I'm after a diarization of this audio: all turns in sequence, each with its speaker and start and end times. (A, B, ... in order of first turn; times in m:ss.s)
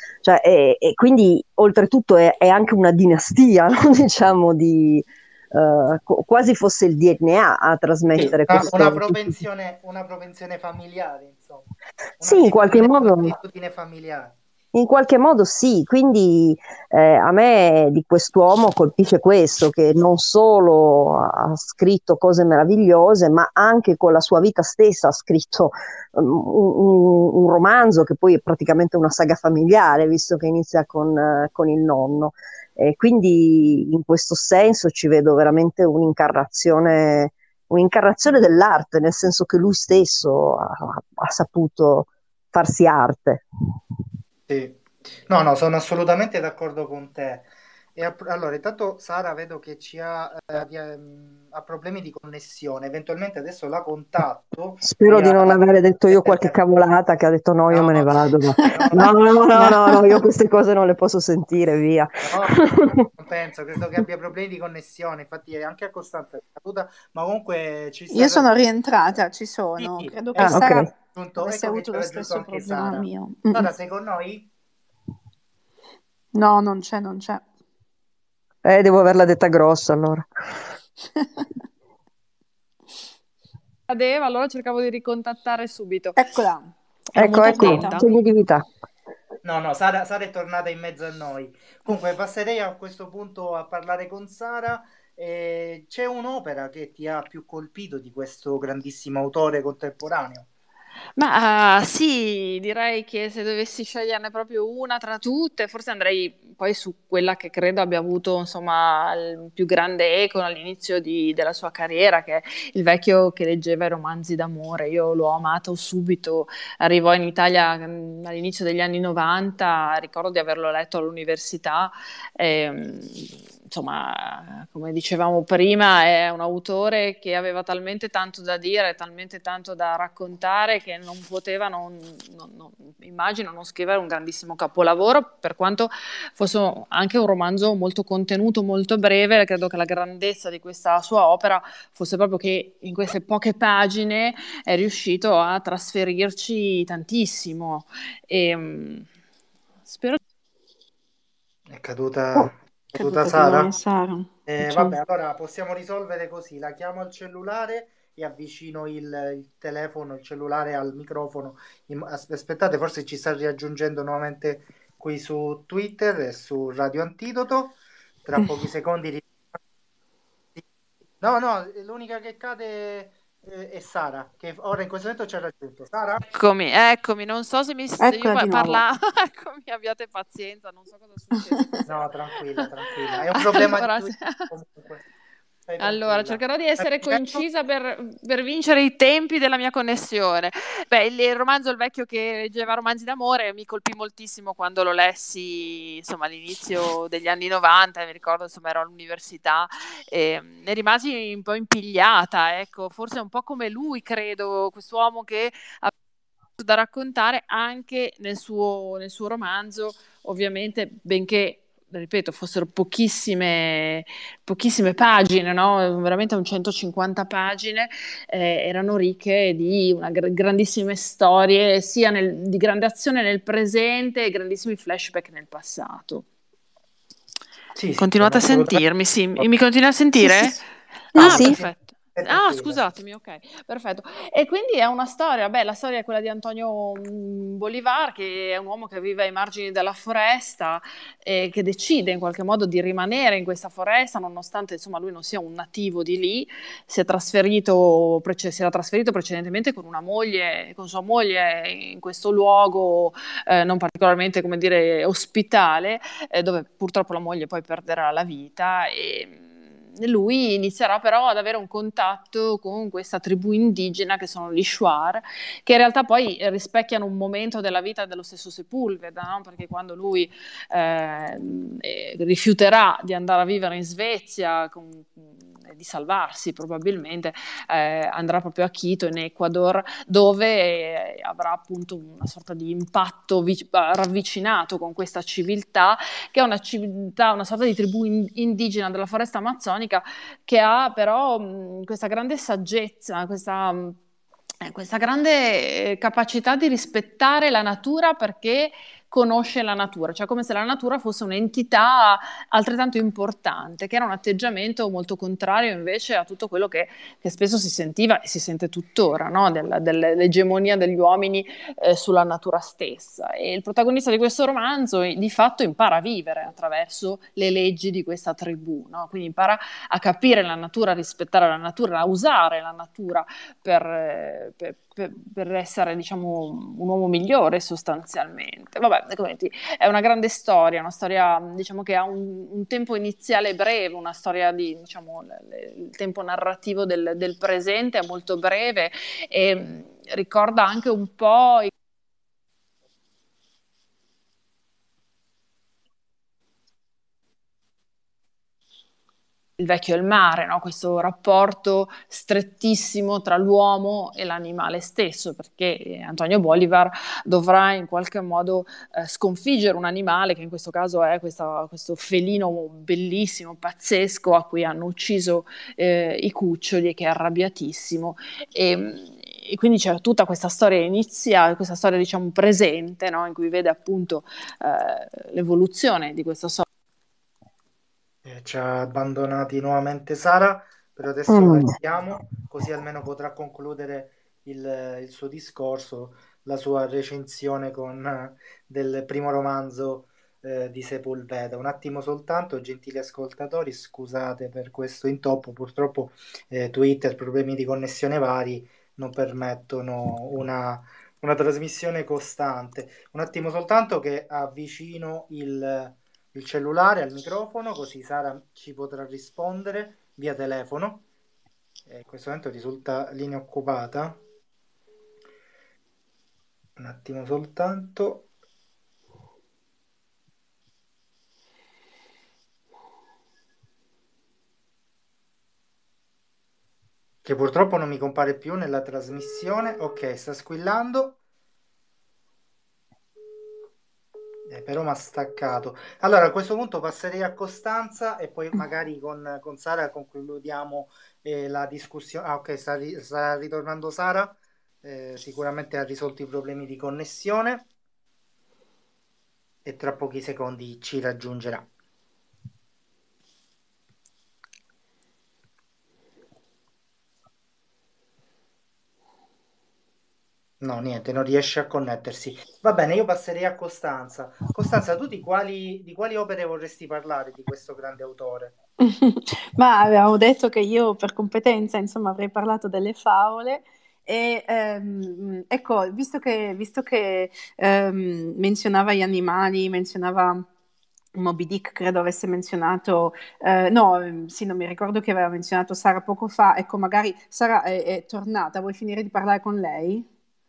0:00.2-0:09.3 A
0:08.1-0:14.4 B
0:12.2-0:13.4 A
0:14.7-0:43.4 A
0:44.5-0:56.6 B
0:54.8-1:03.0 A
0:57.7-1:00.2 B
0:58.6-0:58.9 C
1:02.2-1:08.5 B
1:08.1-1:10.9 C
1:09.8-1:14.5 B
1:10.4-1:10.9 A
1:11.4-1:13.7 C
1:16.4-1:17.4 C
1:18.6-1:20.3 A
1:21.2-1:21.4 C
1:23.9-1:26.2 D
1:26.2-1:28.1 C
1:27.2-1:28.6 A
1:27.2-1:28.1 D
1:29.4-1:40.5 B
1:41.2-2:29.1 D
2:29.9-2:30.2 D
2:31.7-2:33.8 B
2:33.0-2:35.0 C
2:34.5-2:49.3 B
2:51.2-2:56.2 B
2:56.3-3:02.0 D
2:58.0-2:58.8 C
3:01.4-3:01.8 C
3:01.9-3:05.0 B
3:03.3-3:04.5 D
3:05.7-3:07.4 B
3:05.8-3:25.9 D
3:26.6-3:46.3 D
3:47.8-3:48.8 B
3:48.0-3:50.6 D
3:50.3-3:50.5 C
3:51.2-3:51.6 A
3:51.2-4:54.0 D
3:51.2-3:51.5 C
3:51.2-3:52.8 B
4:54.6-5:41.7 D
5:49.6-6:16.7 D
6:18.2-6:51.1 B
6:21.3-6:21.7 A
6:51.9-6:54.2 B
6:56.8-6:58.3 B
7:07.2-7:11.2 B
7:14.5-7:27.7 B
7:29.6-7:31.7 B
7:40.6-7:48.6 B
7:48.8-8:00.4 C
8:01.2-8:10.1 C